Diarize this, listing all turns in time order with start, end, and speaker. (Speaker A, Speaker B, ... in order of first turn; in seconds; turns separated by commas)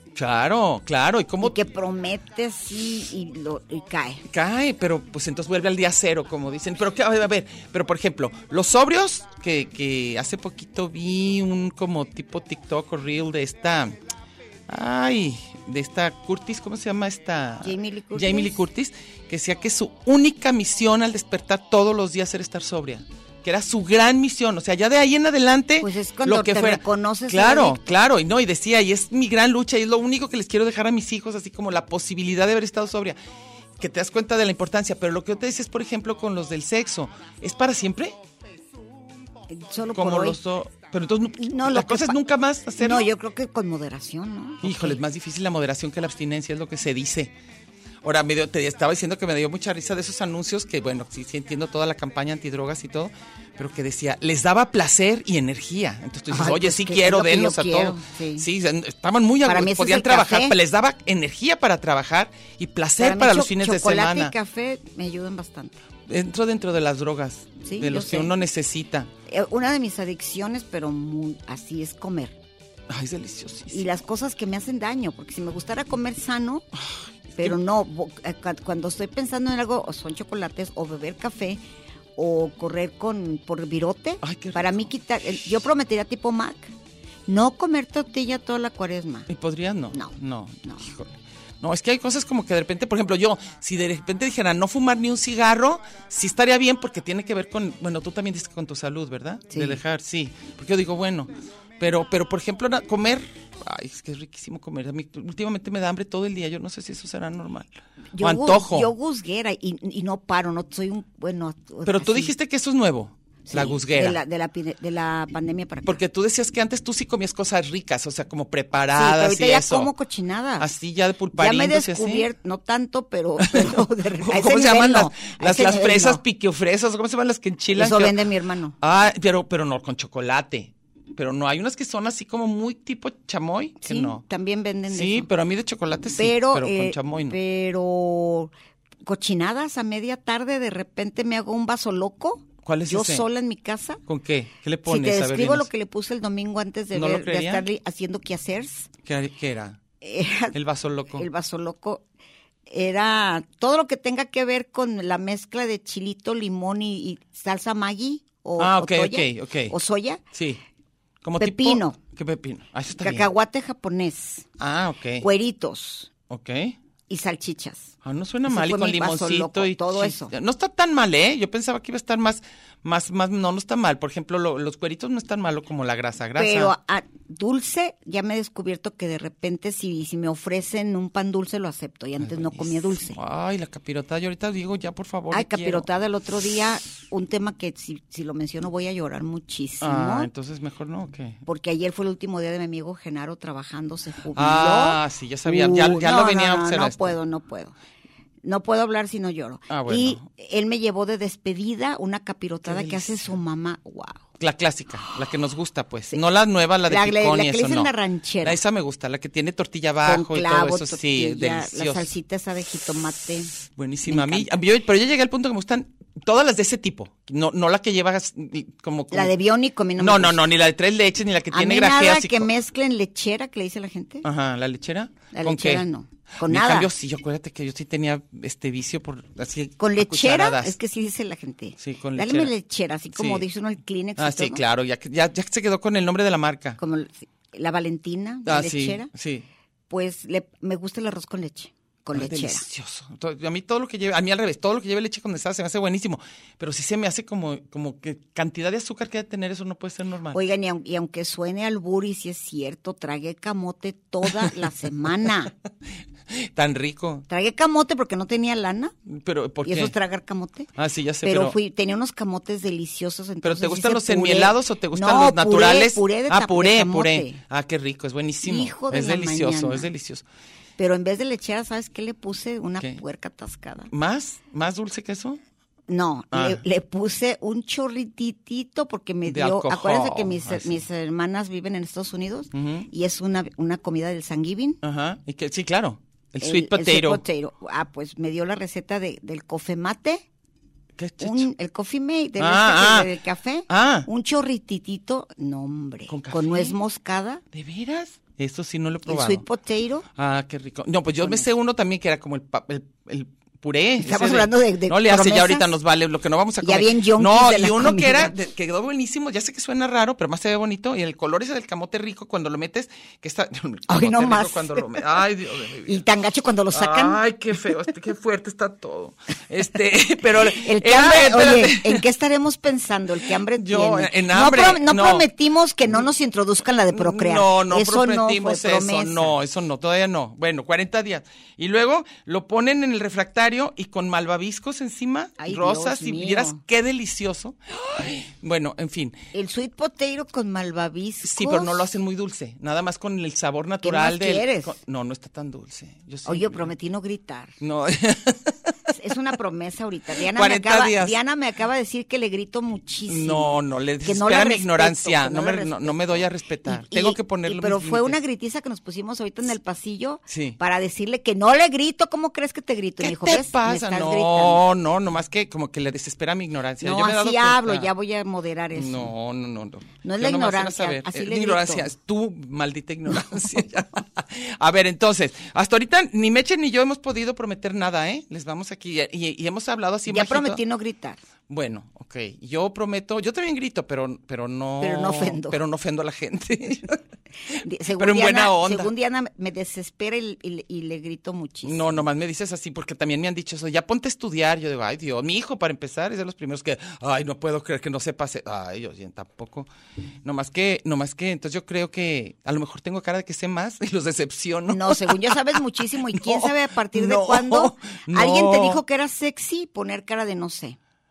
Speaker A: 0.1-1.6, Speaker B: 1.4-4.2, Speaker A: 4.3-13.9, Speaker A: 14.7-33.2, Speaker B: 17.6-18.5, Speaker B: 25.8-27.8, Speaker A: 33.8-38.2, Speaker B: 39.5-40.4, Speaker A: 39.9-43.1, Speaker B: 41.4-42.2, Speaker B: 42.8-45.0, Speaker A: 44.6-47.3, Speaker A: 48.0-64.3, Speaker B: 56.3-58.5, Speaker B: 59.4-60.5, Speaker B: 63.0-65.8, Speaker A: 66.1-69.1, Speaker B: 67.6-68.3, Speaker B: 69.3-72.4, Speaker A: 72.9-73.9, Speaker B: 73.7-76.7, Speaker B: 77.3-81.6, Speaker B: 82.2-86.7, Speaker A: 84.2-84.9, Speaker B: 87.3-89.3, Speaker A: 89.3-108.9, Speaker B: 89.9-90.9, Speaker B: 99.5-99.8, Speaker B: 108.1-112.3, Speaker A: 111.8-114.2, Speaker B: 113.5-116.0, Speaker A: 115.8-119.9, Speaker B: 118.9-120.7, Speaker A: 120.6-122.3, Speaker B: 121.3-126.2, Speaker A: 123.4-128.2, Speaker B: 127.7-128.8, Speaker A: 128.8-134.2, Speaker B: 133.8-135.3, Speaker A: 134.9-137.4, Speaker B: 136.1-138.5, Speaker B: 139.0-144.0, Speaker A: 142.6-143.3, Speaker A: 144.1-145.7, Speaker B: 144.8-148.9, Speaker A: 146.9-147.7, Speaker A: 149.0-149.8, Speaker B: 150.0-150.6, Speaker A: 150.5-151.3, Speaker B: 151.1-152.0, Speaker B: 152.7-160.2, Speaker A: 158.6-159.7, Speaker A: 160.3-160.6, Speaker A: 161.2-163.3, Speaker B: 161.4-162.0, Speaker B: 163.0-164.5, Speaker A: 164.6-165.2, Speaker B: 165.2-166.1, Speaker A: 166.3-166.8, Speaker B: 167.1-167.9, Speaker A: 168.0-176.7, Speaker B: 168.5-170.3, Speaker B: 176.4-183.2, Speaker A: 182.2-185.9, Speaker B: 185.3-190.3, Speaker A: 189.8-191.4, Speaker B: 191.4-197.7, Speaker A: 194.3-197.2, Speaker B: 198.4-204.2, Speaker A: 199.7-200.2, Speaker A: 202.6-203.3, Speaker A: 204.4-207.9, Speaker B: 206.9-208.6, Speaker A: 208.4-212.1, Speaker B: 210.0-213.5, Speaker A: 213.7-219.3, Speaker B: 214.1-214.5, Speaker B: 219.1-220.4, Speaker A: 220.0-222.5, Speaker B: 221.5-224.2, Speaker A: 224.2-225.8, Speaker B: 225.3-226.9, Speaker A: 226.4-230.8, Speaker B: 229.8-234.6, Speaker A: 231.8-232.5, Speaker A: 233.1-233.4, Speaker A: 234.2-236.8, Speaker B: 236.8-239.1, Speaker A: 238.4-239.4, Speaker B: 239.9-242.6, Speaker A: 242.1-250.4, Speaker B: 250.3-255.5, Speaker A: 256.3-257.2, Speaker B: 257.3-258.9, Speaker A: 259.1-259.9, Speaker B: 259.6-260.7, Speaker A: 260.8-261.6, Speaker B: 261.2-267.4, Speaker A: 263.4-270.2, Speaker B: 268.4-269.9, Speaker B: 270.8-273.9, Speaker A: 273.9-275.4, Speaker B: 275.9-284.8, Speaker A: 276.3-276.6, Speaker A: 279.2-280.8, Speaker A: 282.5-282.9, Speaker A: 284.8-287.2, Speaker B: 286.4-290.2, Speaker A: 291.0-291.5, Speaker B: 291.2-297.4, Speaker A: 292.4-293.1, Speaker A: 293.7-294.1, Speaker A: 296.1-296.8, Speaker A: 297.5-299.4, Speaker B: 299.1-300.1, Speaker A: 300.1-316.0, Speaker B: 304.0-305.7, Speaker B: 306.6-308.3, Speaker B: 313.9-315.1, Speaker B: 315.9-317.2, Speaker A: 316.7-322.0, Speaker B: 320.4-329.3, Speaker A: 323.5-325.3, Speaker A: 326.9-339.2, Speaker B: 335.4-336.6, Speaker B: 339.3-341.9, Speaker A: 341.2-346.7, Speaker B: 343.8-344.8, Speaker B: 346.2-347.6, Speaker A: 347.6-348.7, Speaker B: 348.9-364.6, Speaker A: 350.3-351.2, Speaker A: 353.1-358.2, Speaker A: 360.3-360.6, Speaker A: 363.0-367.9, Speaker B: 366.8-369.1, Speaker A: 368.7-380.6, Speaker B: 370.0-371.9, Speaker B: 380.1-381.2, Speaker A: 381.5-387.0, Speaker B: 384.8-385.6, Speaker B: 387.5-392.0, Speaker A: 387.9-388.9, Speaker A: 391.6-399.7, Speaker A: 400.2-405.6, Speaker B: 404.7-410.8, Speaker A: 406.1-408.8